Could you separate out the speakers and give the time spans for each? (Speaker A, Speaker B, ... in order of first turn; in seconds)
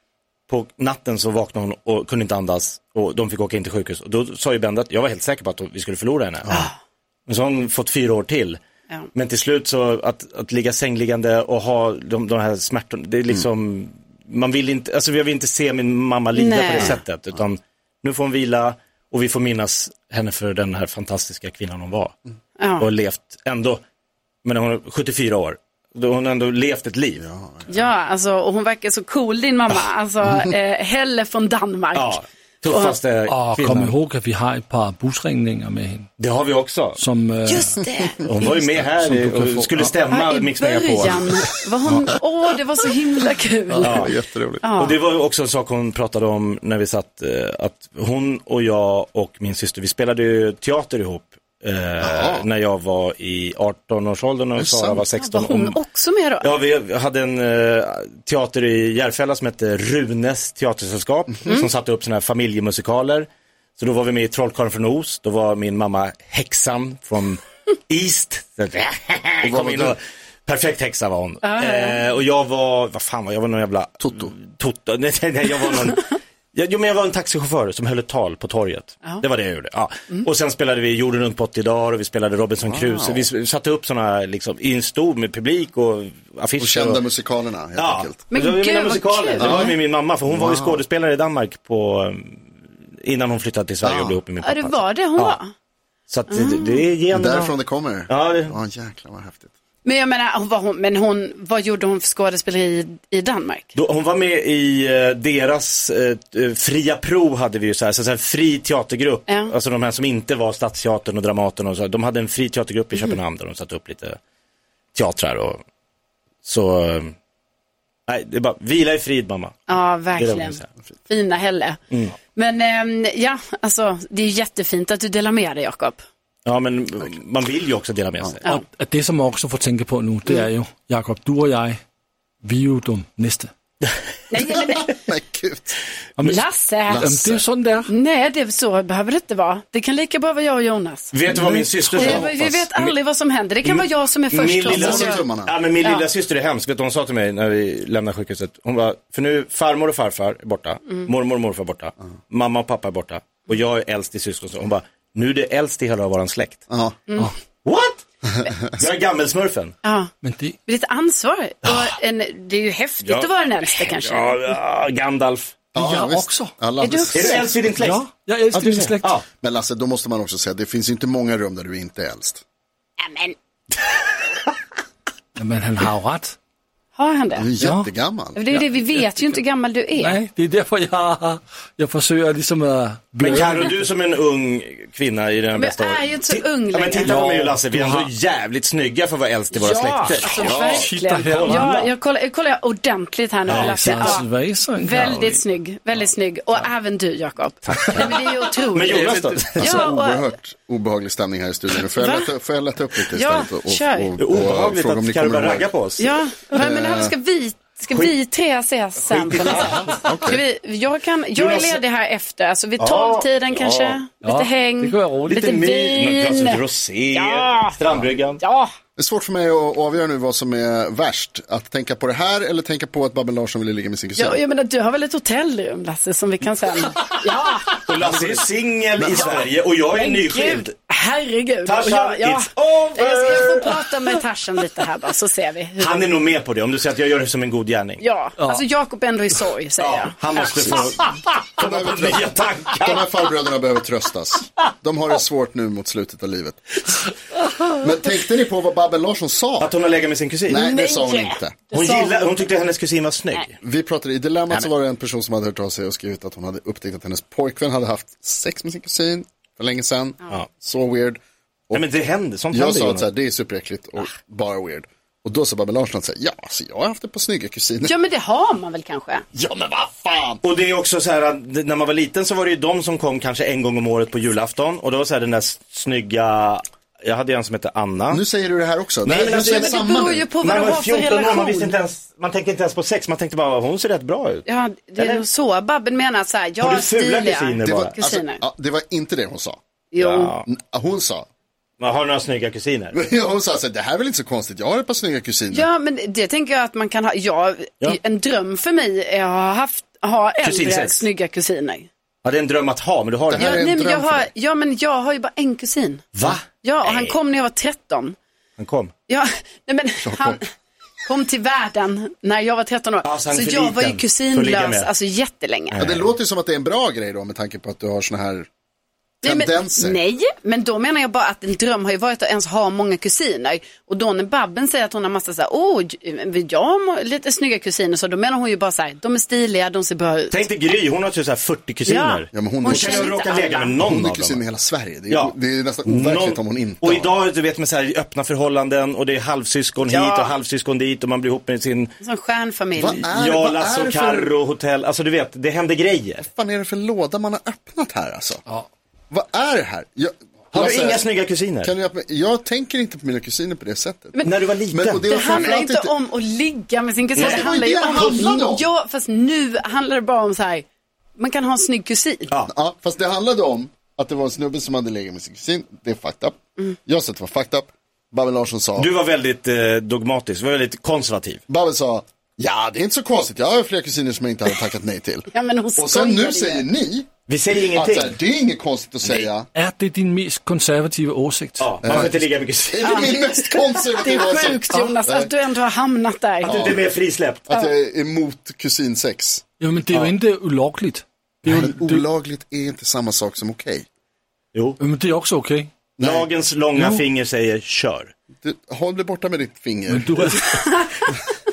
Speaker A: 0.5-6.6, 7.3-8.6, 9.1-22.1, 22.8-23.8, 24.4-27.2, 31.9-33.9, 36.2-37.0, 38.2-41.3, 43.8-44.1, 44.8-55.8, 56.4-87.0, 87.8-92.5, 93.0-95.4, 96.1-97.6, 98.1-98.6, 103.8-114.2, 115.0-115.6, 116.5-117.1, 118.1-120.7, 126.5-128.4, 141.1-143.0, 143.6-156.6, 157.7-158.0, 158.7-159.8, 163.0-165.7, 167.1-168.0, 183.2-191.9, 193.5-193.8, 197.7-198.1, 198.7-199.8, 204.2-206.2, 209.0-209.8, 211.3-211.8, 212.8-213.7, 215.3-218.4, 227.8-230.7, 231.7-234.2, 235.8-238.0, 239.8-243.1, 249.6-250.7, 251.7-253.6, 261.7-263.1, 270.4-278.2, 279.0-284.5, 285.0-285.2, 286.6-288.0, 290.0-290.5, 291.8-292.9, 300.4-301.1, 302.2-303.7, 306.1-307.2, 308.6-308.9, 313.0-314.9, 315.7-316.1, 330.3-334.4, 335.1-341.9, 343.1-346.2, 350.5-351.7, 354.2-355.5, 357.2-358.2, 368.8-371.4, 377.3-378.2, 381.6-383.4, 386.4-387.5, 396.0-398.1
Speaker B: 6.5-6.8, 16.3-17.0, 22.6-22.9, 27.7-33.0, 37.5-38.2, 40.1-44.1, 44.6-45.0, 55.2-56.5, 71.4-72.0, 88.3-89.8, 94.4-95.5, 96.3-96.8, 99.8-103.7, 109.3-109.5, 119.7-121.8, 122.3-126.0, 134.3-134.9, 136.2-137.0, 137.9-141.1, 142.0-145.2, 145.8-146.1, 159.8-160.1, 160.7-164.4, 166.8-167.4, 173.0-173.4, 176.9-177.5, 178.3-180.2, 185.6-187.2, 189.6-194.3, 194.8-200.3, 201.9-202.3, 203.1-204.1, 206.0-217.8, 218.4-218.7, 224.2-227.8, 229.9-236.1, 238.0-240.9, 250.5-252.4, 267.8-269.2, 279.1-281.7, 284.5-288.4, 289.9-290.4, 295.5-301.9, 303.4-308.2, 309.1-310.4, 311.1-315.8, 319.2-330.4, 331.9-333.8, 339.9-340.3, 342.0-343.1, 355.1-362.3, 375.3-376.7, 382.8-383.1, 383.9-386.7, 400.5-400.9
Speaker C: 27.2-27.9, 43.7-44.6, 52.0-52.5, 54.6-55.0, 69.4-70.0, 74.0-74.3, 82.6-83.3, 86.6-88.2, 89.4-89.7, 90.3-90.8, 93.8-94.2, 97.1-99.5, 134.4-135.8, 136.9-137.4, 144.7-145.5, 156.7-157.0, 165.8-167.5, 168.6-172.4, 177.3-178.4, 190.4-190.8, 199.6-205.7, 206.6-207.2, 209.6-210.4, 213.5-214.0, 219.0-224.4, 229.0-229.4, 241.6-247.0, 247.7-249.7, 250.5-251.6, 253.6-261.2, 262.5-267.9, 269.3-270.4, 278.1-280.3, 287.6-289.6, 290.5-291.3, 292.9-295.7, 303.3-304.3, 310.0-310.4, 315.8-318.5, 319.2-320.0, 332.3-333.1, 333.8-337.1, 342.8-344.3, 346.2-348.4, 349.1-351.1, 351.6-355.9, 357.1-358.7, 362.5-368.9, 371.5-377.1, 377.6-379.5, 381.8-382.2, 382.7-385.3, 386.5-386.8, 387.5-389.4, 391.5-393.9, 396.0-396.3, 398.4-400.2
Speaker D: 33.3-36.1, 37.0-37.8, 38.4-39.9, 128.4-131.8, 132.4-133.5, 136.2-137.9, 141.3-142.2, 160.2-160.6, 165.8-166.5, 167.6-169.2, 175.4-176.4, 177.6-177.9, 178.5-179.2, 179.9-183.9, 187.0-188.1, 190.2-191.8, 193.5-195.4, 198.9-199.4, 214.2-215.5, 238.4-238.6, 379.5-381.8, 389.6-392.1, 394.8-395.7, 396.8-397.0, 399.9-400.8